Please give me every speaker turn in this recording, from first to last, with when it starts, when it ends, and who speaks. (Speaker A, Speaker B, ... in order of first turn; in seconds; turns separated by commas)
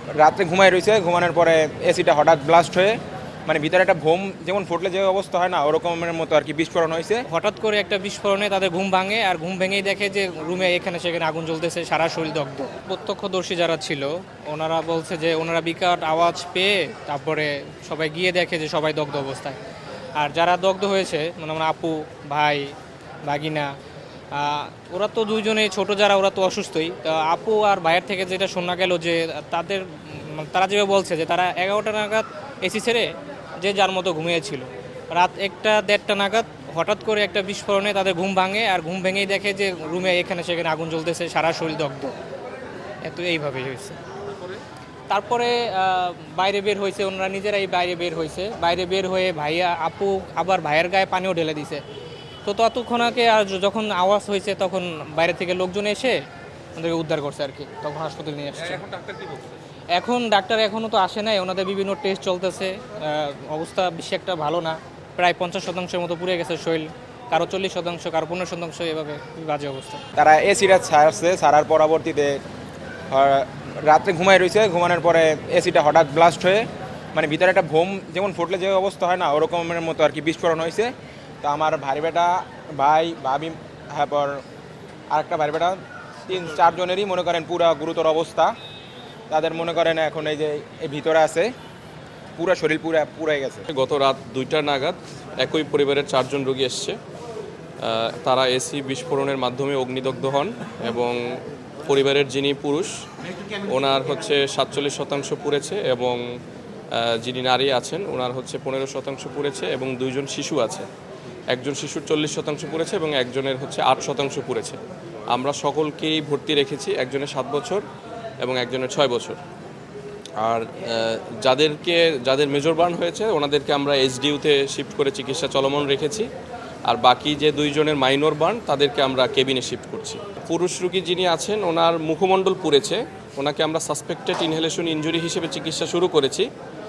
Speaker A: 0.2-3.0, Speaker A: 3.5-7.2, Speaker B: 7.3-19.6, Speaker B: 20.2-23.7, Speaker B: 24.3-42.2, Speaker B: 43.0-44.0, Speaker B: 45.1-51.8, Speaker B: 52.5-56.2, Speaker B: 56.8-58.9, Speaker C: 58.8-59.5, Speaker B: 60.0-70.0, Speaker A: 70.2-72.4, Speaker A: 73.1-84.4, Speaker A: 85.1-88.5, Speaker A: 89.3-91.5, Speaker A: 92.4-93.7, Speaker C: 93.7-97.0, Speaker C: 97.8-103.0, Speaker C: 103.5-106.2, Speaker C: 106.9-110.9, Speaker C: 111.5-117.8, Speaker C: 118.4-119.4, Speaker C: 120.4-126.3, Speaker C: 126.9-136.5